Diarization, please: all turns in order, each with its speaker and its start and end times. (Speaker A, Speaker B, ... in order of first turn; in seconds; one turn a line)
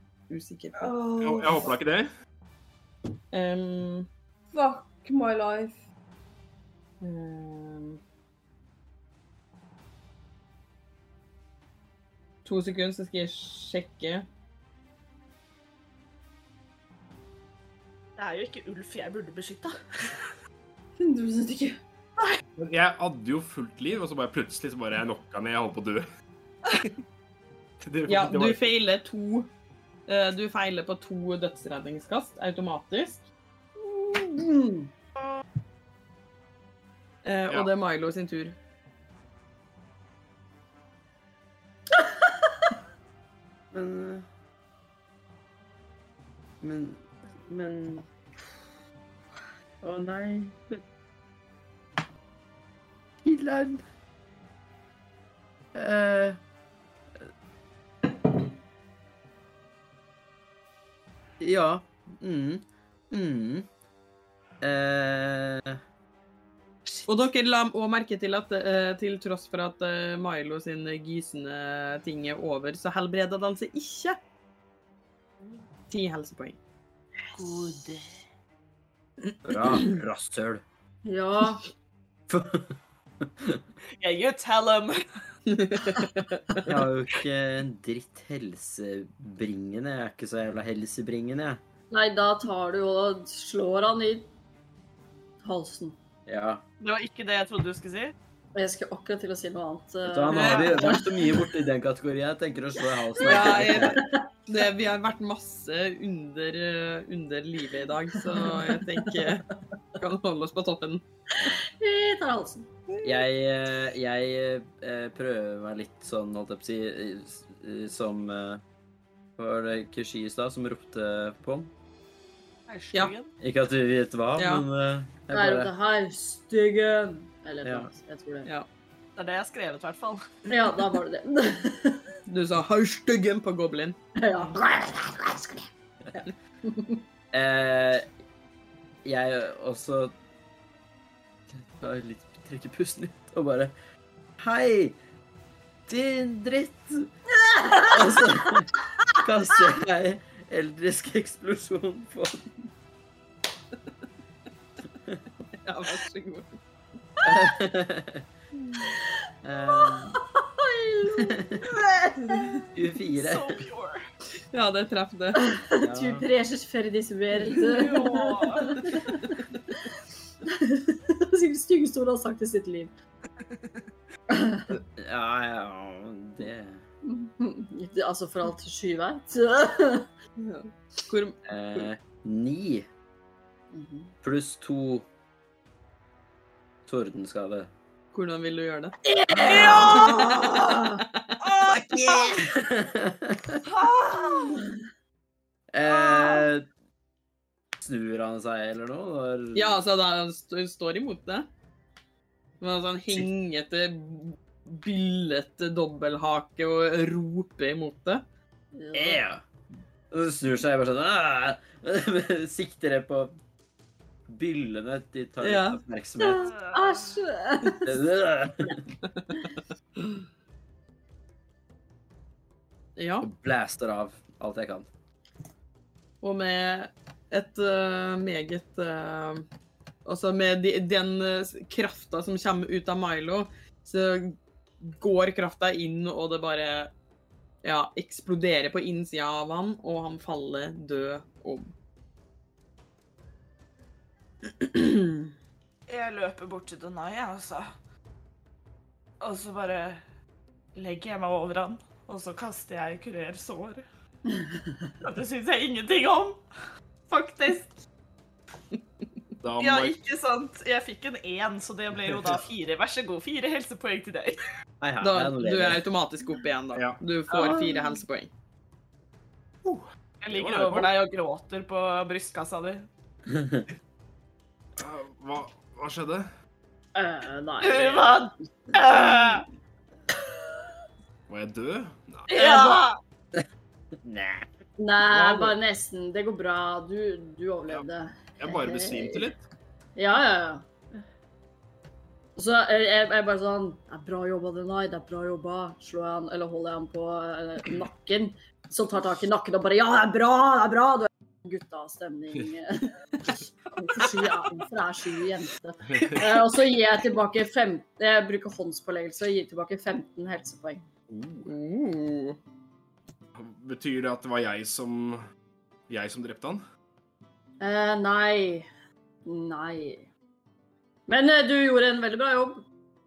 Speaker A: 0.3-0.9
Speaker B: 0.8-1.8
Speaker C: 1.2-2.1
Speaker A: 3.3-4.1
Speaker B: 4.5-5.8
Speaker A: 7.0-8.0
Speaker A: 12.4-14.2
Speaker D: 18.2-20.3
Speaker B: 21.0-21.8
Speaker C: 22.6-26.1
Speaker C: 27.8-28.7
Speaker A: 28.1-29.5
Speaker A: 30.1-33.2
Speaker B: 33.8-34.9
Speaker A: 37.2-38.5
Speaker E: 43.7-44.2
Speaker E: 46.6-48.6
Speaker E: 49.8-50.8
Speaker E: 53.2-53.8
Speaker E: 55.7-56.4
Speaker E: 61.4-63.7
Speaker E: 64.6-65.8
Speaker A: 67.1-74.2
Speaker A: 75.9-76.6
Speaker D: 77.3-78.1
Speaker E: 79.4-80.6
Speaker B: 81.0-81.7
Speaker E: 82.3-83.6
Speaker D: 84.0-85.0
Speaker A: 85.5-86.7
Speaker E: 86.6-91.6
Speaker B: 91.9-94.3
Speaker B: 95.4-96.0
Speaker E: 96.2-96.6
Speaker D: 96.8-98.1
Speaker B: 98.5-101.4
Speaker E: 100.0-104.0
Speaker A: 100.3-101.0
Speaker D: 100.3-100.8
Speaker B: 103.2-104.2
Speaker A: 103.2-109.5
Speaker B: 108.2-109.4
Speaker A: 110.0-111.0
Speaker E: 111.4-111.6
Speaker B: 111.4-112.7
Speaker E: 113.0-118.6
Speaker E: 119.4-121.7
Speaker D: 122.7-123.3
Speaker E: 123.4-125.7
Speaker A: 124.4-124.6
Speaker B: 125.3-128.5
Speaker E: 127.6-127.9
Speaker D: 129.2-130.2
Speaker B: 130.5-132.2
Speaker A: 132.3-134.0
Speaker B: 134.2-137.0
Speaker E: 137.3-138.1
Speaker E: 139.0-140.1
Speaker E: 141.5-143.7
Speaker E: 144.4-145.0
Speaker E: 145.9-147.1
Speaker E: 147.7-152.5
Speaker A: 155.6-156.6
Speaker E: 157.2-158.3
Speaker E: 159.4-160.2
Speaker B: 159.7-162.6
Speaker E: 161.2-161.6
Speaker A: 162.2-162.6
Speaker E: 162.7-163.6
Speaker D: 163.1-164.0
Speaker A: 164.5-165.4
Speaker B: 165.3-169.8
Speaker E: 165.8-166.3
Speaker D: 167.5-169.0
Speaker B: 170.4-172.9
Speaker B: 174.3-174.7
Speaker E: 175.0-176.8
Speaker B: 177.0-180.1
Speaker A: 180.4-181.8
Speaker E: 181.4-182.9
Speaker B: 183.7-184.1
Speaker E: 184.2-185.1
Speaker E: 186.8-187.7
Speaker A: 188.1-188.9
Speaker B: 189.1-191.0
Speaker E: 189.3-190.2
Speaker D: 189.4-190.3
Speaker A: 189.7-191.3
Speaker D: 191.5-192.3
Speaker E: 191.6-193.7
Speaker D: 193.6-194.6
Speaker E: 195.7-196.7
Speaker D: 196.1-196.4
Speaker E: 197.8-199.8
Speaker A: 199.5-201.5
Speaker A: 202.6-208.2
Speaker B: 208.7-209.2
Speaker E: 208.9-209.4
Speaker E: 210.1-213.3
Speaker E: 214.3-216.5
Speaker A: 215.4-215.8
Speaker B: 216.2-218.0
Speaker D: 216.3-217.1
Speaker E: 217.8-218.8
Speaker A: 219.0-219.4
Speaker A: 223.0-223.3
Speaker E: 223.2-224.9
Speaker A: 226.2-229.4
Speaker A: 230.1-236.9
Speaker A: 237.6-241.7
Speaker A: 244.6-245.2
Speaker D: 245.9-247.7
Speaker D: 249.2-250.0
Speaker D: 250.7-253.8
Speaker D: 255.0-256.4
Speaker D: 257.1-257.8
Speaker C: 259.4-260.0
Speaker D: 259.6-264.4
Speaker E: 264.8-265.8
Speaker A: 265.0-268.3
Speaker C: 266.7-267.0
Speaker C: 269.6-270.9
Speaker D: 270.2-272.8
Speaker E: 273.3-273.6
Speaker C: 274.8-276.3
Speaker B: 276.9-279.4
Speaker D: 277.6-279.4
Speaker C: 281.3-282.3
Speaker D: 282.3-283.0
Speaker B: 282.3-282.8
Speaker E: 284.0-284.5
Speaker B: 284.8-289.3
Speaker C: 285.1-285.5
Speaker C: 288.4-289.4
Speaker B: 289.9-290.6
Speaker B: 292.4-310.8
Speaker C: 305.9-306.4
Speaker C: 311.1-311.5
Speaker A: 311.4-312.4
Speaker C: 313.3-315.2
Speaker C: 315.9-316.6
Speaker B: 317.6-318.7
Speaker B: 319.2-320.1
Speaker B: 321.1-322.6